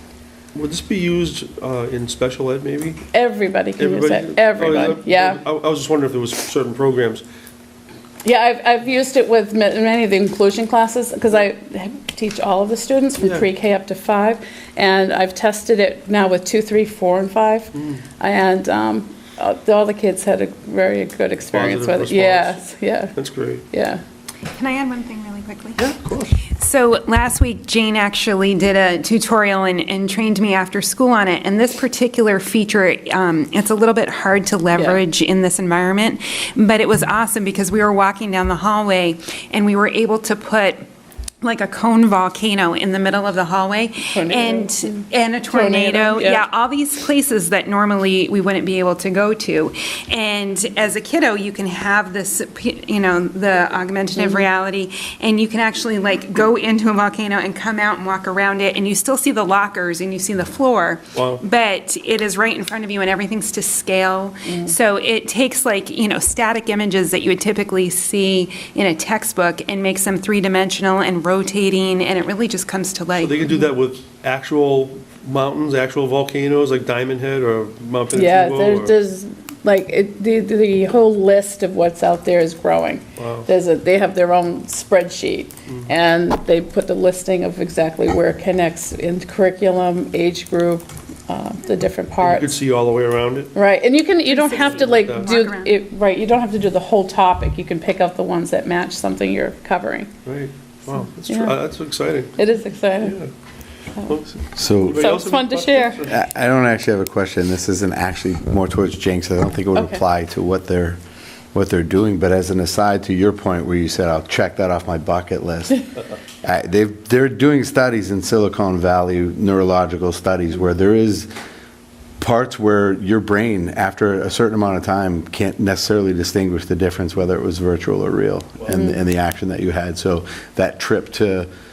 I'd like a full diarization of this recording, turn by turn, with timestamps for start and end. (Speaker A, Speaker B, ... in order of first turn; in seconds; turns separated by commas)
Speaker A: 0.5-3.0, Speaker B: 3.1-5.4, Speaker A: 3.8-7.2, Speaker B: 8.2-23.1, Speaker A: 13.2-13.5, Speaker A: 17.7-18.0, Speaker A: 21.5-22.6, Speaker A: 23.1-23.6, Speaker B: 23.7-24.0, Speaker C: 24.5-25.8, Speaker A: 25.8-26.4, Speaker C: 26.5-40.9, Speaker B: 34.7-35.0, Speaker C: 41.4-73.4, Speaker B: 44.0-46.4, Speaker B: 54.2-54.5, Speaker A: 61.1-61.4, Speaker B: 64.5-64.7, Speaker A: 73.1-79.0, Speaker B: 78.1-92.5, Speaker A: 83.2-83.5, Speaker A: 92.2-93.5, Speaker B: 93.5-100.1, Speaker C: 94.2-95.7, Speaker A: 94.5-95.3, Speaker A: 100.2-102.4, Speaker B: 101.2-101.5, Speaker B: 102.4-103.2, Speaker A: 103.0-103.3, Speaker A: 104.0-106.2, Speaker D: 104.5-105.1, Speaker B: 104.9-106.0, Speaker D: 106.1-111.0, Speaker B: 109.7-110.0, Speaker D: 111.5-115.9, Speaker D: 116.4-121.3, Speaker D: 122.2-131.5, Speaker B: 128.7-129.0